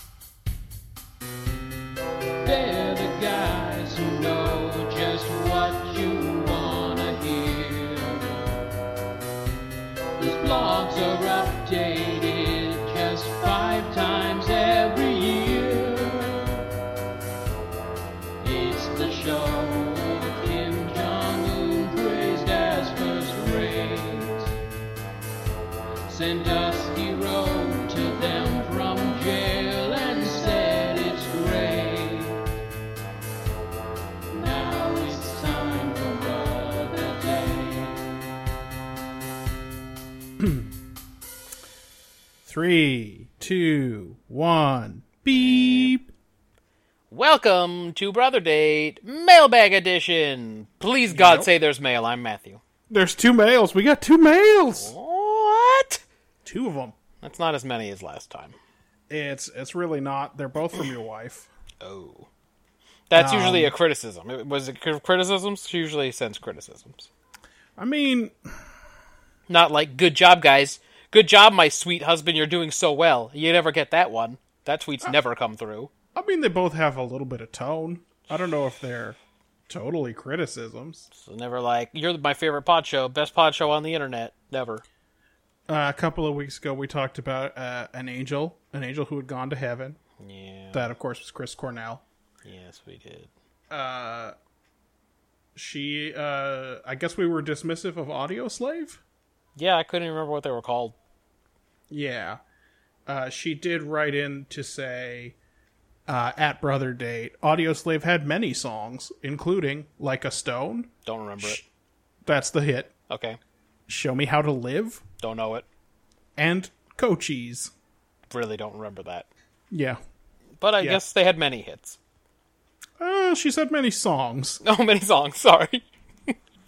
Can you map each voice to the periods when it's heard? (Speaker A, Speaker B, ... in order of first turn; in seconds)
Speaker A: 2.4-8.4, 10.2-16.6, 18.4-24.6, 26.1-32.4, 34.3-38.1
Speaker B: 40.4-40.7, 42.5-46.1, 51.1-51.5, 52.9-54.9, 56.5-57.0, 59.1-61.5, 63.1-63.7, 67.8-68.6, 76.2-79.2, 79.7-81.1, 85.7-90.0, 90.7-92.0, 93.7-94.3, 95.5-99.0, 101.9-102.4, 103.1-105.4, 106.1-111.6, 112.2-112.9, 113.9-115.0, 116.4-117.7, 119.7-120.0, 123.0-124.6
Speaker C: 45.4-45.9, 47.1-52.6, 54.7-56.0, 57.2-58.6, 61.8-62.3, 63.1-67.1, 69.5-75.9, 81.1-84.8, 90.2-90.8, 92.4-93.3, 99.6-101.0, 111.0-111.6, 113.1-113.4, 115.2-115.7, 118.3-119.3, 120.6-122.0, 124.6-126.3